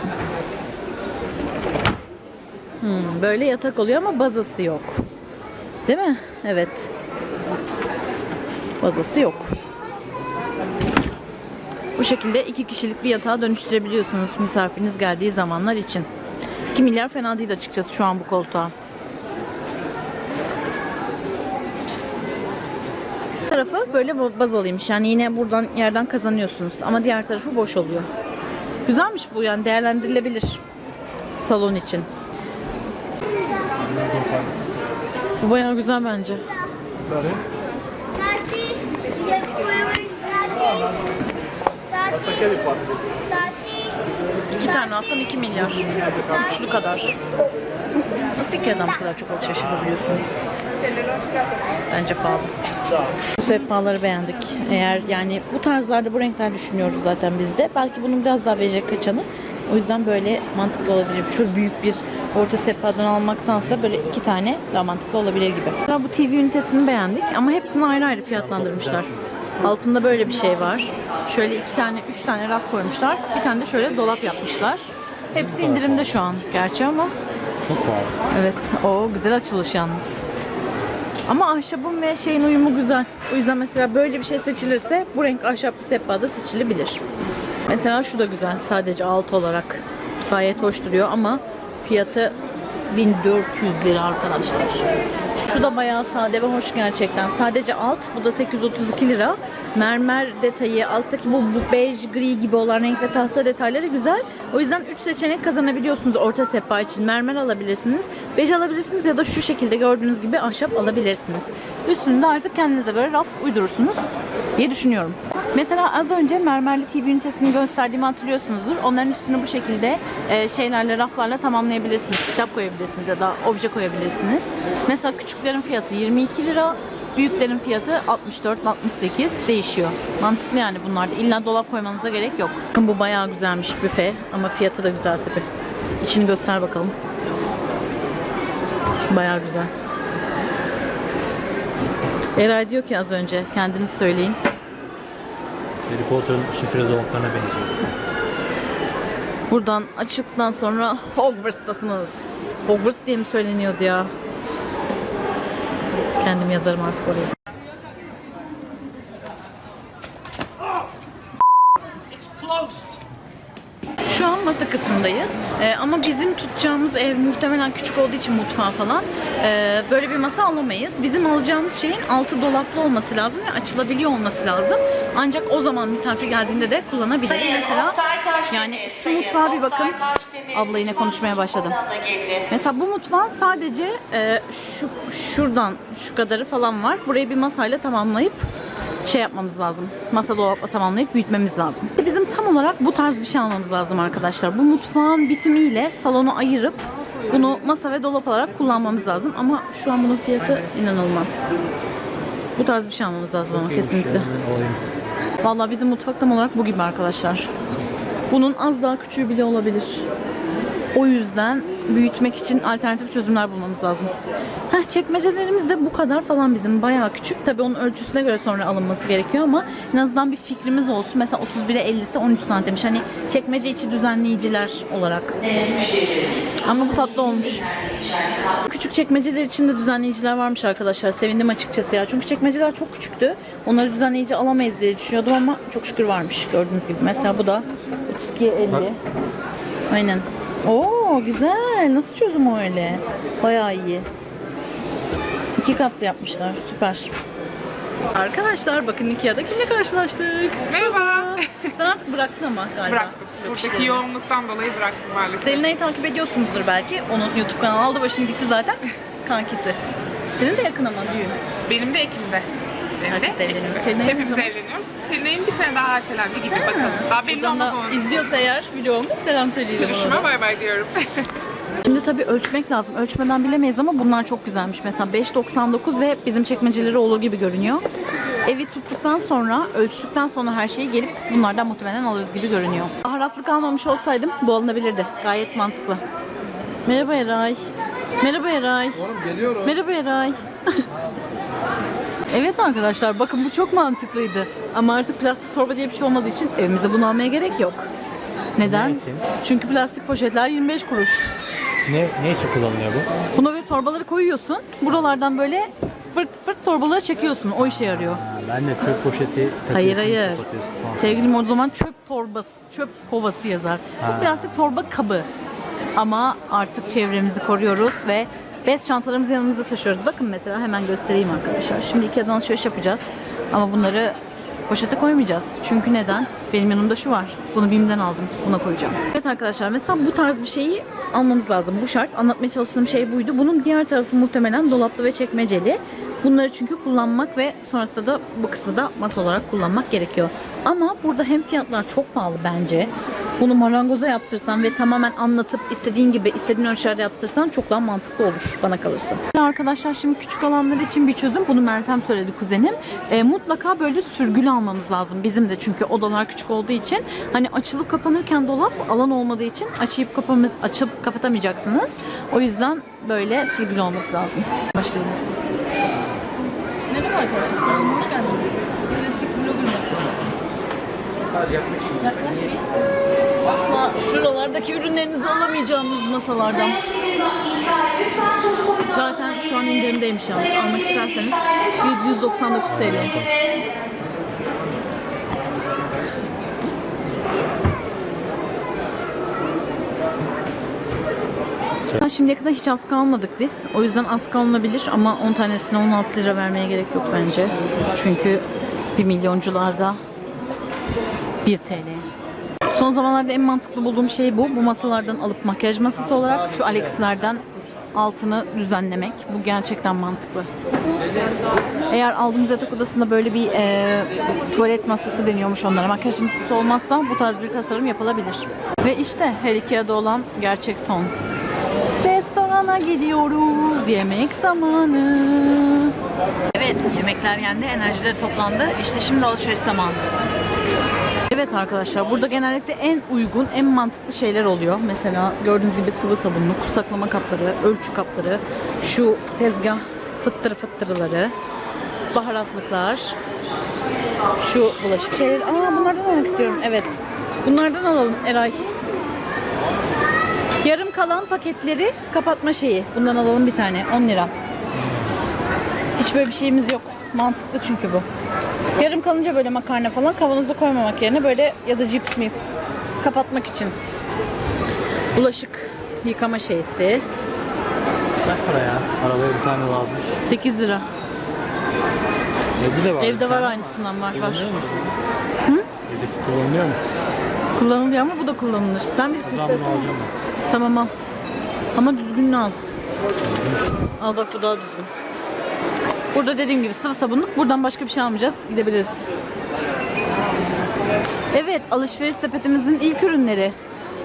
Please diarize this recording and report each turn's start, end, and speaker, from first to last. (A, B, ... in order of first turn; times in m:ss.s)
0:02.8-0:05.0 A
0:05.8-0:06.9 A
0:08.8-0:09.5 A
0:12.0-0:16.1 A
0:16.7-0:18.7 A
0:23.4-0:28.1 A
0:28.8-0:30.6 A
0:31.4-0:32.1 A
0:33.8-0:34.5 B
0:35.4-0:36.4 A
0:44.5-0:47.2 A
0:48.2-0:50.3 A
0:51.9-0:52.5 A
0:53.4-1:09.1 A
1:08.3-1:09.2 B
1:09.6-1:17.1 A
1:15.3-1:16.3 B
1:17.6-1:18.2 B
1:18.3-1:20.2 A
1:21.3-1:27.0 A
1:27.6-1:32.3 A
1:32.9-1:34.8 A
1:35.5-1:54.0 A
1:54.6-2:15.4 A
2:16.0-2:16.9 A
2:19.1-2:19.7 A
2:22.4-2:24.4 A
2:25.9-2:27.8 B
2:29.5-2:34.1 A
2:36.2-2:37.3 A
2:44.1-3:08.5 A
3:09.0-3:21.4 A
3:22.6-3:24.3 A
3:23.5-3:24.8 B
3:25.4-3:27.5 A
3:28.3-3:30.0 A
3:30.9-3:34.1 A
3:34.7-3:45.5 A
3:46.5-3:48.0 A
3:48.5-3:59.0 A
3:59.9-4:04.1 A
4:05.6-4:07.1 A
4:08.1-4:14.0 A
4:10.7-4:11.6 C
4:12.9-4:15.6 C
4:15.4-4:19.8 A
4:20.4-4:21.4 A
4:21.7-4:22.5 C
4:23.0-4:28.0 C
4:23.1-4:24.5 A
4:26.5-4:30.3 A
4:29.7-4:31.3 C
4:31.8-4:37.8 A
4:38.4-4:46.0 A
4:46.8-4:47.6 A
4:48.2-4:50.8 A
4:52.3-4:57.9 A
4:58.6-5:01.3 A
4:58.6-4:59.2 B
5:01.8-5:03.1 B
5:03.3-5:08.2 A
5:07.6-5:11.3 B
5:09.7-5:10.4 A
5:11.0-5:15.3 A
5:14.0-5:14.5 B
5:16.0-5:24.2 A
5:24.7-6:05.2 A
6:06.9-6:10.4 A
6:12.0-6:12.6 A
6:13.4-6:16.8 A
6:18.8-6:23.3 A
6:22.7-6:23.5 B
6:32.0-6:40.0 A
6:41.4-6:42.1 A
6:42.7-6:50.5 A
6:51.9-7:01.1 A
7:02.0-7:05.9 A
7:06.5-7:10.1 A
7:11.3-7:21.3 A
7:22.1-7:23.2 A
7:24.4-7:28.7 A
7:30.6-7:34.3 A
7:36.0-7:38.0 A
7:38.8-7:43.8 A
7:45.1-7:47.0 A
7:48.2-7:50.0 B
7:50.2-7:50.8 A
7:52.6-7:55.0 B
7:53.0-7:54.5 A
7:55.8-7:56.8 B
7:57.5-7:59.9 A
7:59.2-8:00.1 B
8:00.5-8:00.9 A
8:01.7-8:02.6 A
8:03.2-8:03.6 B
8:04.0-8:04.9 A
8:06.1-8:09.1 A
8:11.3-8:13.5 A